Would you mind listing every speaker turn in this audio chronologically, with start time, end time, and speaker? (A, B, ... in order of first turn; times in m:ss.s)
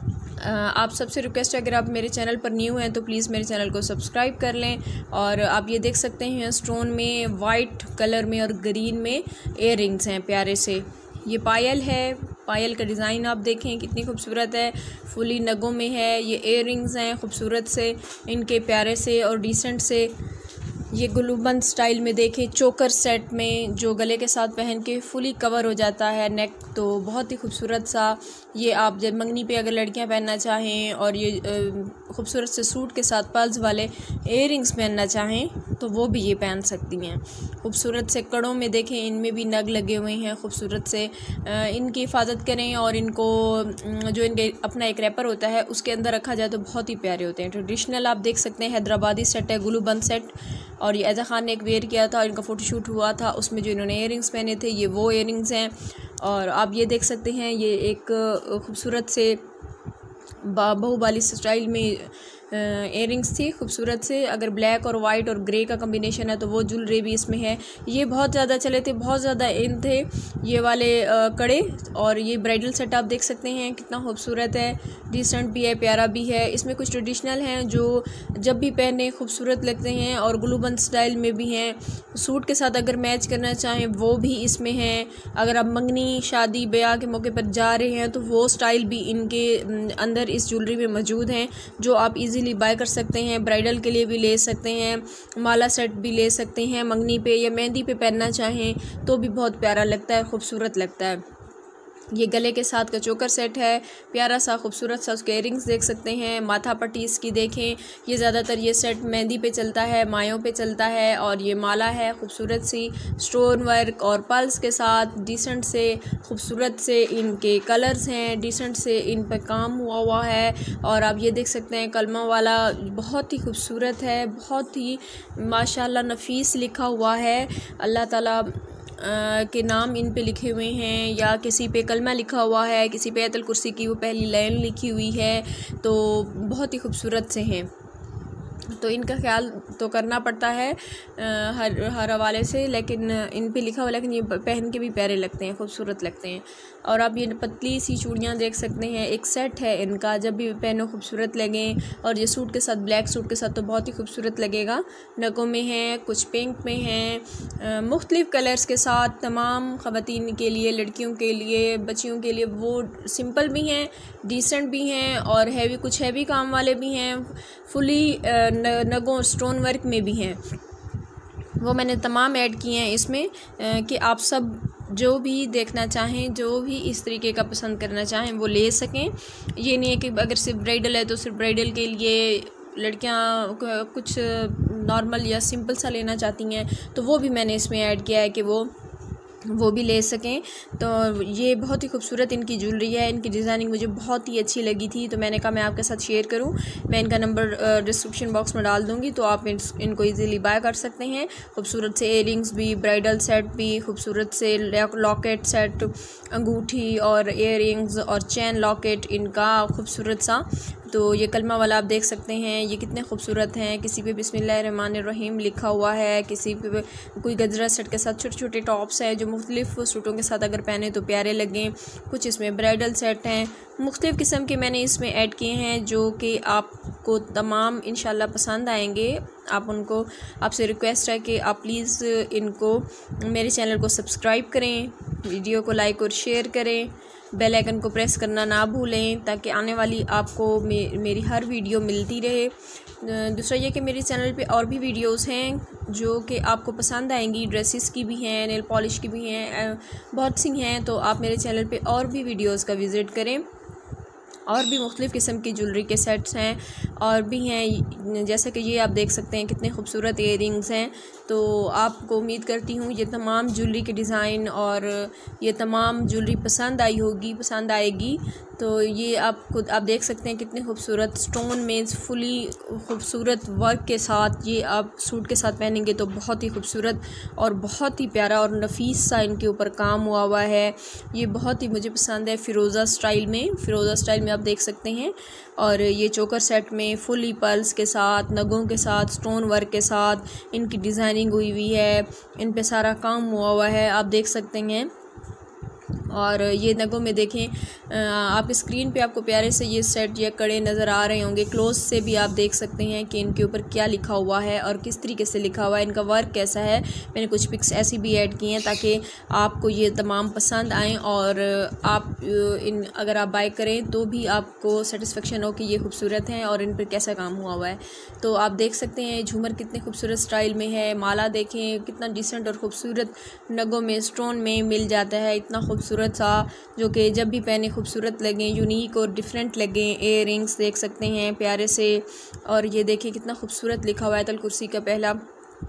0:00.4-0:20.2 A
0:20.9-0:59.4 A
1:00.4-1:41.2 A
1:42.1-2:17.7 A
2:18.7-2:50.4 A
2:51.6-3:08.7 A
3:09.5-4:13.5 A
4:14.5-4:54.9 A
4:56.1-5:35.2 A